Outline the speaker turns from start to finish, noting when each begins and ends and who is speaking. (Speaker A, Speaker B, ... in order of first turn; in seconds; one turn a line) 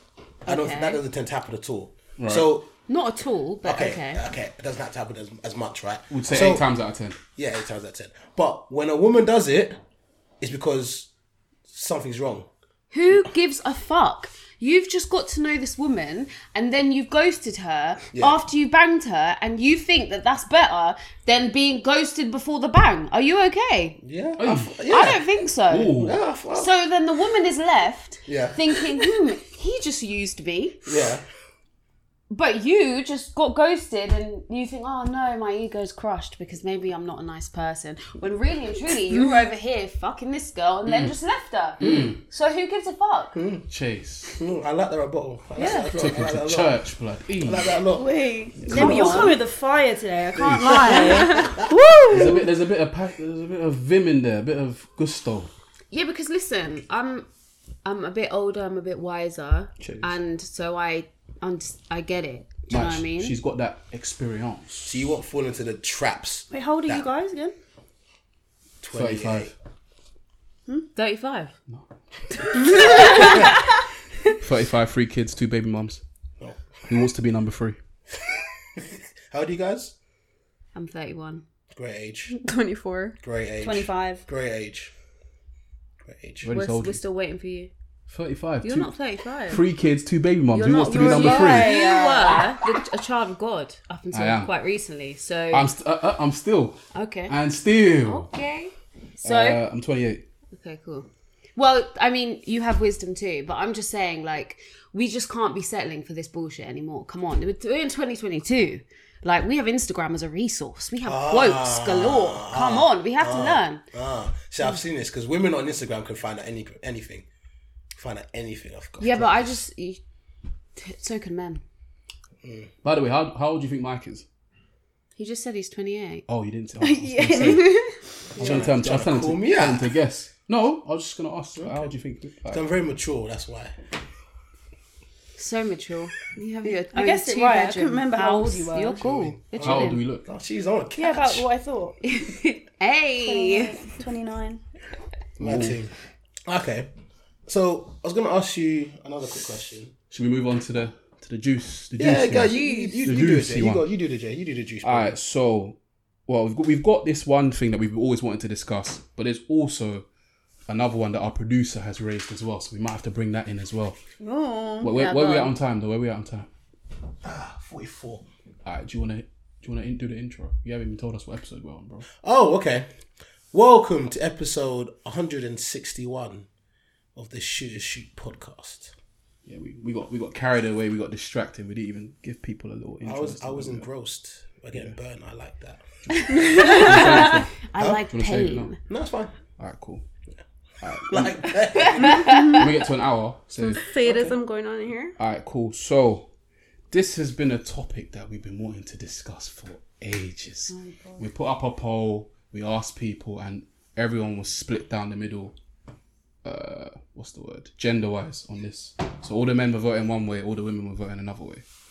Speaker A: 0.4-2.7
Speaker B: 0.5-1.0
Speaker C: 2.2-2.5
Speaker B: 2.9-4.2
Speaker A: 3.6-6.7
Speaker C: 6.1-7.2
Speaker A: 7.3-9.8
Speaker A: 10.4-11.1
Speaker A: 11.7-12.5
Speaker B: 12.9-24.0
Speaker A: 24.0-25.2
Speaker C: 24.4-24.8
Speaker B: 24.9-30.9
Speaker C: 25.7-26.2
Speaker A: 26.0-26.7
Speaker A: 28.2-28.6
Speaker A: 30.9-31.2
Speaker B: 32.3-43.4
Speaker C: 40.9-41.1
Speaker C: 41.8-42.2
Speaker A: 43.3-43.6
Speaker C: 43.7-44.4
Speaker A: 44.4-46.8
Speaker D: 45.6-45.9
Speaker B: 45.6-45.9
Speaker C: 45.9-47.8
Speaker A: 47.4-48.1
Speaker D: 48.0-52.4
Speaker C: 48.6-49.3
Speaker A: 48.6-49.4
Speaker B: 48.8-49.3
Speaker A: 50.3-51.7
Speaker C: 52.1-55.5
Speaker B: 55.9-57.3
Speaker B: 57.8-63.4
Speaker C: 59.8-60.1
Speaker C: 62.7-64.9
Speaker A: 64.8-67.1
Speaker D: 66.5-67.5
Speaker A: 68.8-69.5
Speaker C: 68.9-69.5
Speaker B: 70.9-71.5
Speaker C: 71.7-73.2
Speaker B: 72.5-73.6
Speaker C: 74.4-76.0
Speaker A: 76.4-76.9
Speaker C: 76.9-77.8
Speaker A: 78.8-79.9
Speaker B: 80.7-81.4
Speaker A: 81.7-82.3
Speaker E: 82.3-83.2
Speaker A: 83.2-84.9
Speaker D: 83.6-84.2
Speaker A: 86.0-86.5
Speaker C: 86.4-87.0
Speaker B: 86.5-87.7
Speaker C: 88.1-88.9
Speaker B: 88.6-89.6
Speaker C: 89.5-91.7
Speaker B: 90.5-95.7
Speaker E: 91.0-92.5
Speaker D: 91.4-92.0
Speaker C: 94.1-94.5
Speaker C: 95.5-98.3
Speaker B: 96.9-97.3
Speaker B: 98.0-99.6
Speaker C: 99.2-100.2
Speaker B: 100.5-113.8
Speaker A: 111.0-117.3
Speaker A: 117.9-119.6
Speaker B: 119.0-120.0
Speaker B: 120.8-121.6
Speaker A: 122.4-122.7
Speaker C: 122.8-124.2
Speaker B: 125.2-126.2
Speaker C: 126.3-132.6
Speaker D: 126.8-128.0
Speaker A: 128.3-129.9
Speaker B: 128.4-128.7
Speaker A: 131.6-131.9
Speaker A: 132.5-133.7
Speaker B: 135.3-140.0
Speaker D: 136.9-139.0
Speaker A: 139.0-141.4
Speaker C: 139.6-140.3
Speaker D: 141.0-142.0
Speaker B: 142.0-143.8
Speaker D: 143.2-144.6
Speaker A: 145.4-145.9
Speaker C: 145.4-145.8
Speaker A: 146.5-146.9
Speaker A: 147.4-149.9
Speaker C: 150.1-153.8
Speaker A: 152.0-155.2
Speaker D: 152.5-153.1
Speaker C: 154.8-160.1
Speaker C: 160.7-164.0
Speaker D: 164.2-165.3
Speaker C: 164.8-166.5
Speaker B: 164.9-165.5
Speaker A: 167.2-168.2
Speaker C: 168.6-172.1
Speaker A: 172.2-172.9
Speaker A: 173.5-176.5
Speaker A: 177.1-178.9
Speaker C: 179.4-183.9
Speaker A: 183.0-186.5
Speaker B: 186.3-188.8
Speaker E: 186.5-186.8
Speaker C: 186.6-188.7
Speaker A: 188.9-189.3
Speaker C: 189.6-190.0
Speaker C: 190.8-191.6
Speaker A: 191.1-192.3
Speaker B: 191.8-192.7
Speaker C: 192.5-193.8
Speaker E: 193.7-195.1
Speaker A: 194.0-194.3
Speaker C: 195.2-196.3
Speaker C: 196.9-205.5
Speaker D: 200.7-201.2
Speaker C: 206.4-211.6